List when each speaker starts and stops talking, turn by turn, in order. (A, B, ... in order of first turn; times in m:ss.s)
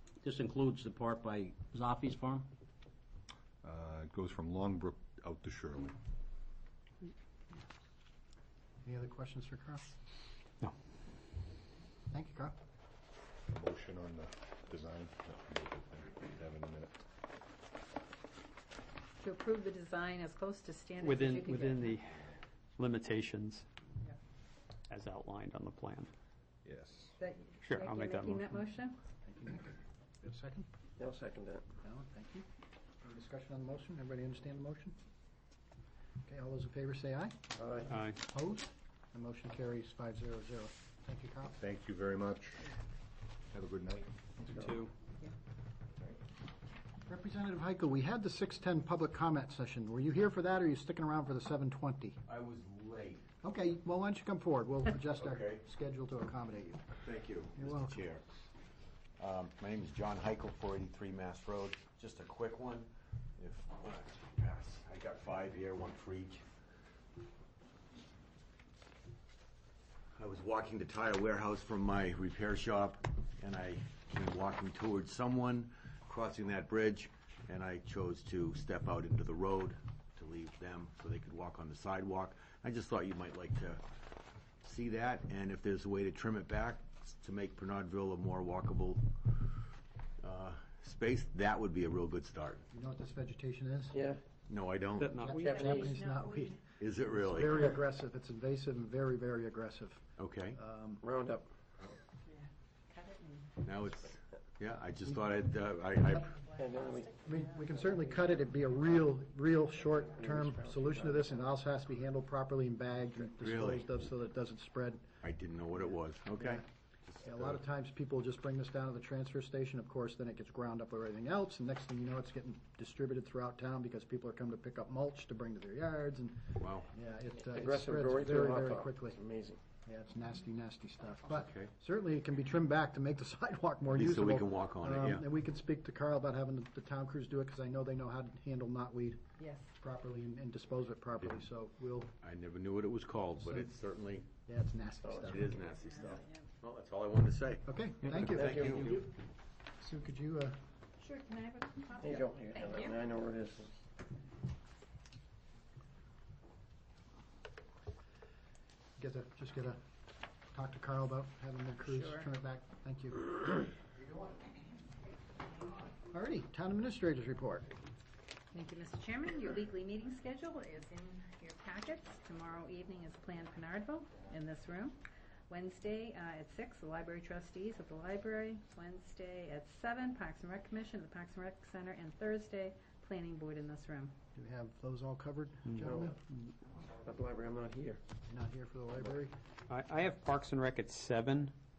0:00.2-0:02.5 A
0:03.6-0:06.0 B
0:08.8-0:10.0 C
0:12.1-0:12.6 C
0:13.5-0:17.0 B
0:19.2-0:22.0 D
0:21.0-0:23.7 E
0:24.9-0:26.1 E
0:26.6-0:27.1 B
0:27.2-0:29.0 D
0:27.6-0:28.6 E
0:29.2-0:30.7 C
0:31.0-0:31.6 F
0:31.8-0:32.5 C
0:33.0-0:35.0 C
0:36.3-0:37.4 C
0:37.6-0:37.9 F
0:37.9-0:38.2 E
0:38.1-0:41.6 C
0:41.6-0:42.8 B
0:43.5-0:44.7 B
0:44.5-0:44.9 E
0:47.1-0:52.2 C
0:52.3-0:53.3 G
0:53.4-0:57.0 C
0:55.2-0:55.6 G
0:57.0-0:58.2 G
0:57.6-0:58.1 C
0:59.2-1:06.5 G
1:10.2-1:23.8 G
1:24.6-1:29.4 G
1:30.2-1:32.6 G
1:32.7-1:34.0 C
1:33.9-1:34.2 F
1:34.5-1:35.2 G
1:35.0-1:35.9 E
1:35.2-1:35.9 F
1:35.3-1:41.0 C
1:35.4-1:36.6 D
1:36.8-1:37.7 G
1:40.2-1:40.6 G
1:41.0-1:41.5 F
1:42.3-1:43.6 D
1:43.6-1:46.4 G
1:46.6-1:47.4 D
1:46.6-1:47.2 F
1:47.2-1:55.2 C
1:49.9-1:51.5 F
1:53.4-1:53.9 G
1:55.2-1:57.6 G
1:55.7-1:56.6 C
1:57.2-2:09.2 C
2:06.6-2:06.9 G
2:07.5-2:09.6 F
2:09.8-2:19.2 C
2:11.3-2:11.7 G
2:13.9-2:15.2 G
2:19.4-2:19.7 D
2:19.7-2:22.1 C
2:22.2-2:24.3 G
2:23.4-2:23.8 C
2:24.4-2:25.6 C
2:25.0-2:25.4 F
2:25.2-2:29.0 G
2:25.7-2:26.4 D
2:27.7-2:29.0 C
2:28.3-2:29.0 F
2:29.8-2:30.6 C
2:31.0-2:33.1 D
2:32.0-2:33.8 F
2:39.0-2:39.8 C
2:40.5-2:43.3 C
2:41.9-2:42.3 D
2:46.1-2:47.7 C
2:48.5-3:04.2 D
3:04.4-3:06.2 C
3:05.8-3:06.2 F
3:06.9-3:08.0 F
3:08.3-3:09.4 C
3:09.7-3:11.5 E